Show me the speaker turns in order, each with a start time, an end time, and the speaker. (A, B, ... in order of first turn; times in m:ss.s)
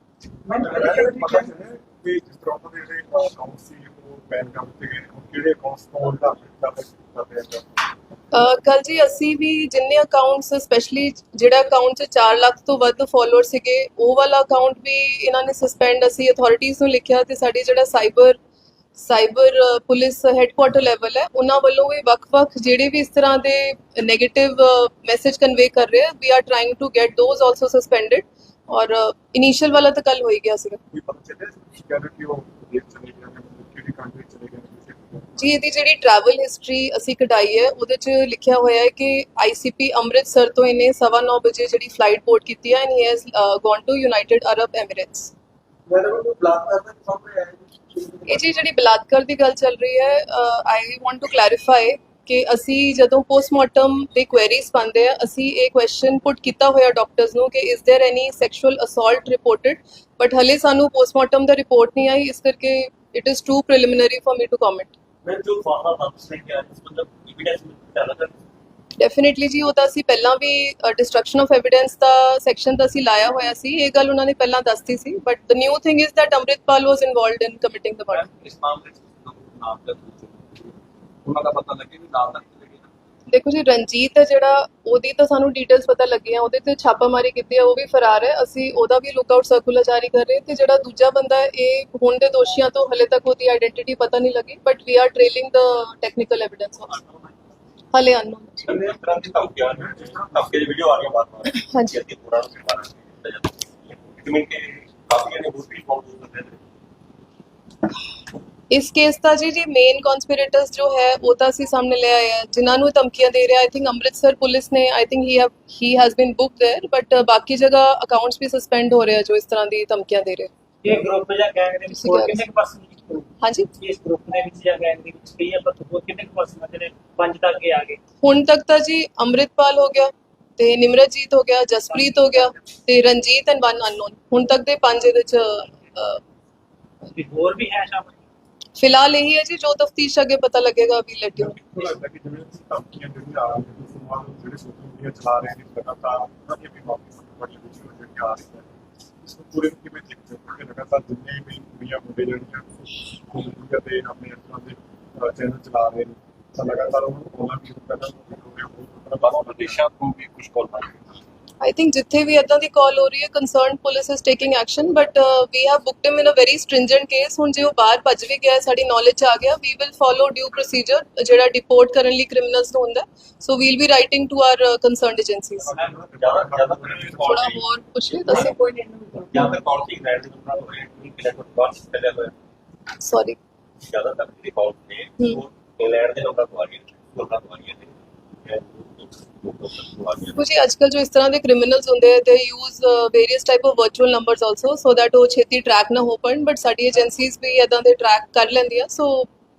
0:00.5-0:01.5 A
0:00.5-0:07.9 B
0:08.3-0:18.4 C
0:19.0-0:30.8 C
0:30.9-0:35.5 B
0:35.4-0:45.3 C
0:45.9-0:48.4 A
0:48.2-1:04.9 C
1:05.2-1:08.4 D
1:09.0-1:18.2 C
1:18.1-1:22.9 E
1:23.3-1:37.0 C
1:37.9-1:38.7 C
1:38.6-1:46.6 D
1:39.7-1:41.2 B
1:41.4-1:42.0 C
1:48.7-2:00.5 C
2:00.8-2:08.0 A
2:01.9-2:02.4 C
2:03.4-2:03.7 C
2:08.2-2:16.2 C
2:12.1-2:12.4 A
2:17.1-2:18.2 A
2:18.8-2:21.6 C
2:21.3-2:28.7 B
2:29.2-2:39.8 B
2:39.2-2:40.9 D
2:41.6-2:55.8 C
2:55.7-2:56.1 E
2:55.7-2:57.4 B
2:56.2-2:57.6 D
2:57.2-2:58.6 C
2:58.2-2:59.6 A
2:59.3-3:02.3 D
3:03.0-3:03.4 C
3:03.8-3:10.4 D
3:10.3-3:19.3 C